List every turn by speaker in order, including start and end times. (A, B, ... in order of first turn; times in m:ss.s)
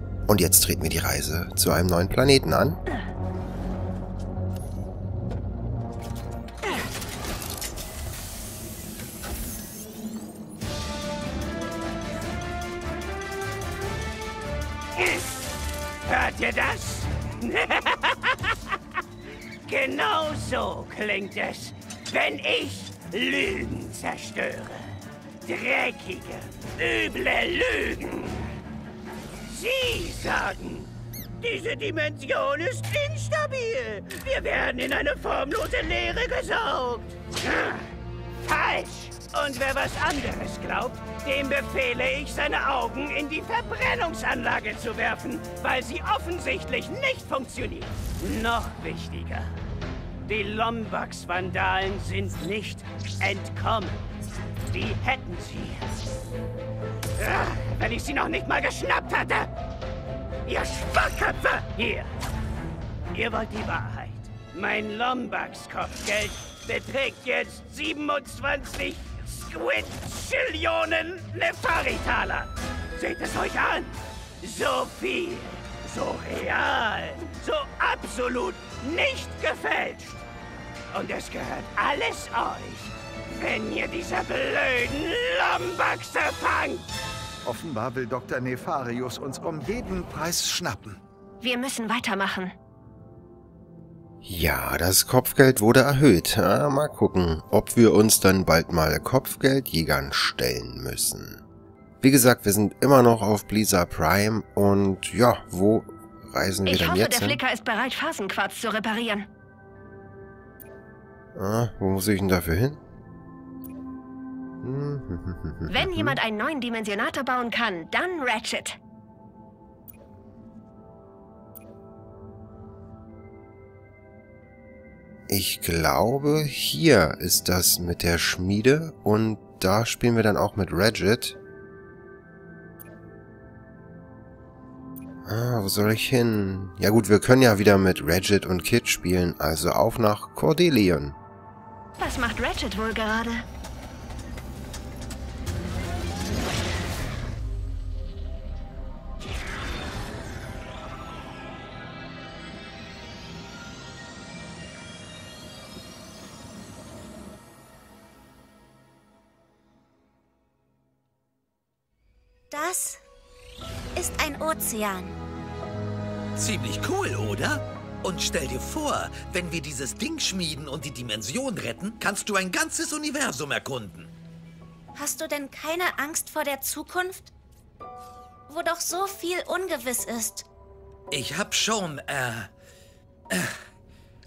0:00.3-0:02.8 A
0:15.0-0:15.5 B
0:16.0-0:19.0 B
0:19.6-0:24.9 B
0:25.4-0:28.5 B
0:29.5-0:37.9 B
0:38.4-0:49.5 B
0:50.2-0:54.0 B
0:54.7-0:55.9 B
0:57.2-0:59.5 B
1:00.4-1:02.1 B
1:03.1-1:20.2 B
1:20.9-1:26.8 B
1:27.4-1:31.0 C
1:31.4-1:32.5 D
1:34.2-1:41.4 A
1:42.0-1:47.4 A
1:46.6-1:49.3 D
1:51.3-1:52.8 A
1:54.6-1:56.2 A
1:55.7-1:58.8 D
2:05.3-2:11.4 A
2:15.2-2:21.2 A
2:22.0-2:23.4 D
2:42.5-2:43.0 E
2:44.0-2:45.2 E
2:46.4-2:54.1 F
2:55.0-2:57.3 E
2:58.5-3:00.4 E
3:01.1-3:02.5 F
3:03.3-3:03.6 F